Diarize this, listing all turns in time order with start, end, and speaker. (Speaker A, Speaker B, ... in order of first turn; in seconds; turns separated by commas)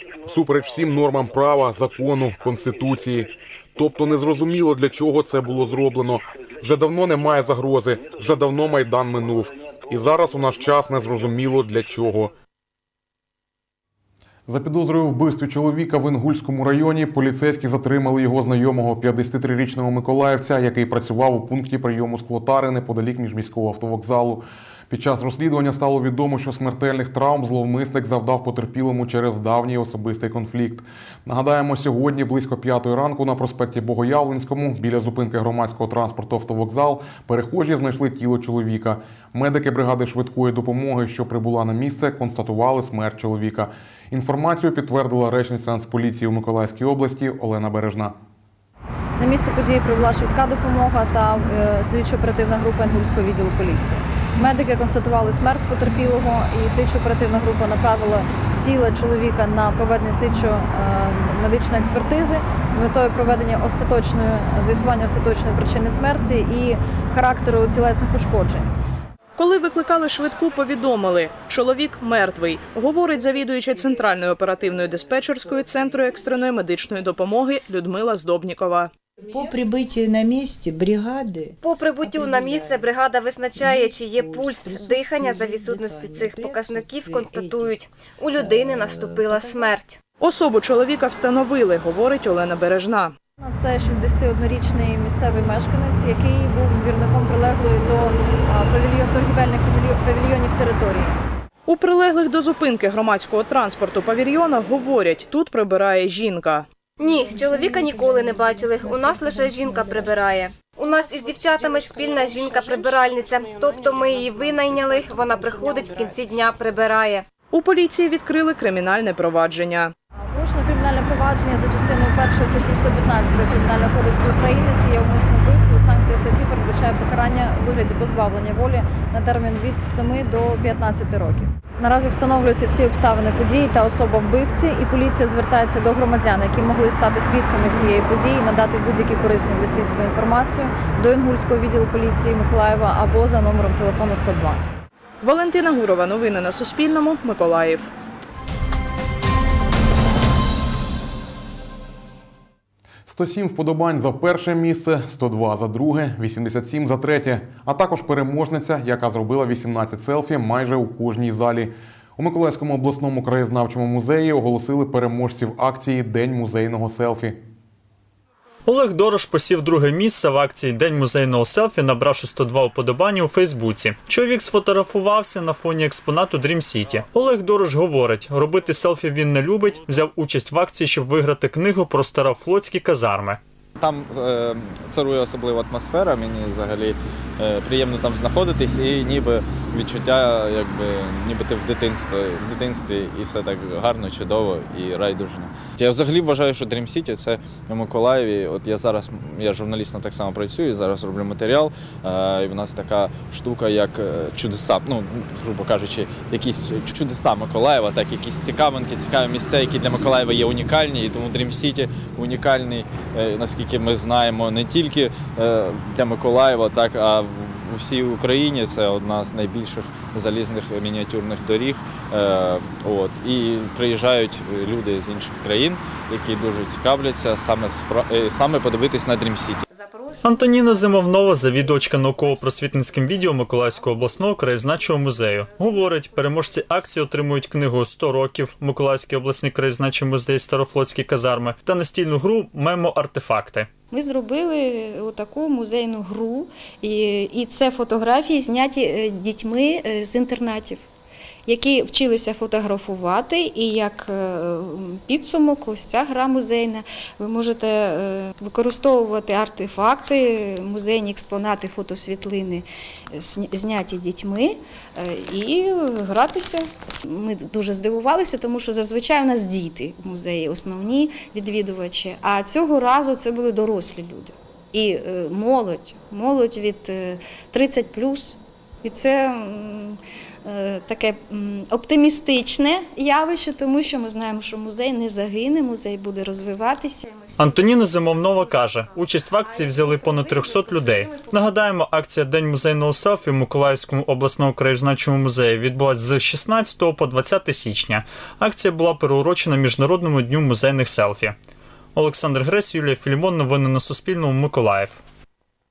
Speaker A: 0.3-12.3, Speaker A: 14.5-48.1, Speaker B: 49.2-68.7, Speaker C: 69.4-78.9, Speaker D: 79.3-82.8, Speaker E: 81.6-90.0, Speaker D: 83.6-87.7, Speaker D: 88.4-89.6, Speaker C: 90.2-93.1, Speaker B: 93.4-101.2, Speaker C: 101.7-106.7, Speaker E: 107.0-117.2, Speaker D: 109.3-110.0, Speaker C: 112.1-112.5, Speaker C: 117.5-119.9, Speaker B: 120.2-144.7, Speaker C: 145.2-147.9, Speaker A: 153.1-167.4, Speaker F: 168.7-183.4, Speaker G: 183.8-229.6, Speaker F: 230.2-243.7, Speaker H: 243.9-250.8, Speaker H: 251.5-287.1, Speaker F: 287.4-301.4, Speaker F: 301.9-305.0